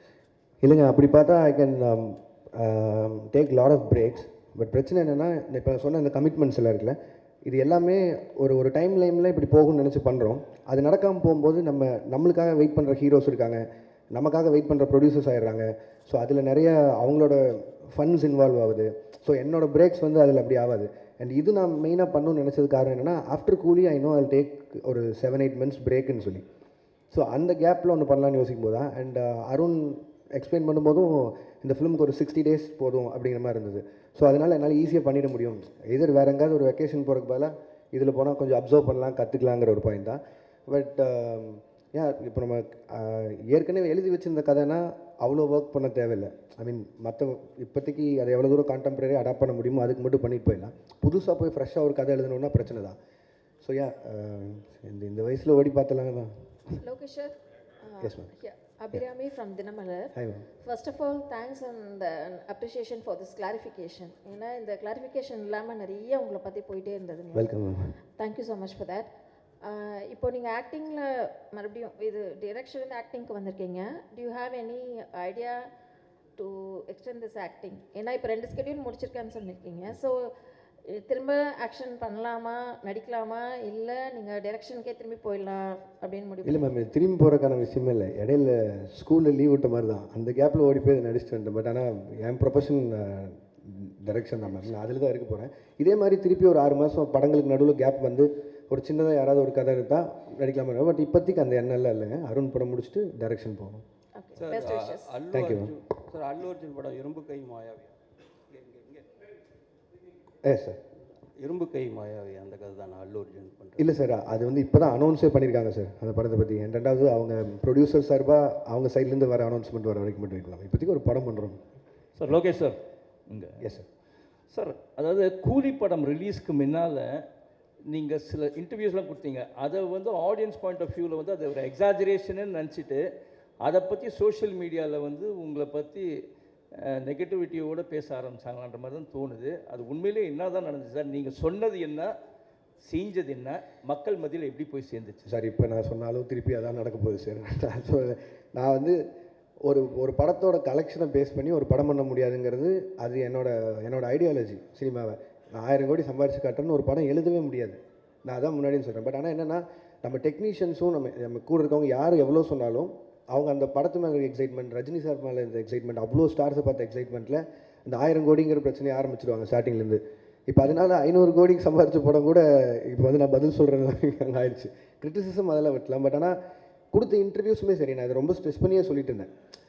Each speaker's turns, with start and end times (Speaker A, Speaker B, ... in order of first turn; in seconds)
Speaker A: 0.6-26.4, 27.1-53.0, 53.6-56.4, 58.0-58.3, 60.1-60.5, 67.3-67.9, 86.4-103.8, 105.3-105.8, 110.4-110.8, 113.8-121.6, 123.6-123.8, 145.2-149.0, 149.6-176.4, 176.9-179.3
Speaker B: 56.8-67.5, 68.2-69.1, 69.6-75.7, 76.4-80.3, 80.9-86.7, 104.2-105.1
Speaker C: 104.4-107.9, 108.5-109.0, 111.4-114.0
Speaker D: 122.2-122.8, 123.3-123.7, 124.5-127.2, 127.9-133.0, 133.6-136.1, 136.8-142.1, 142.8-145.3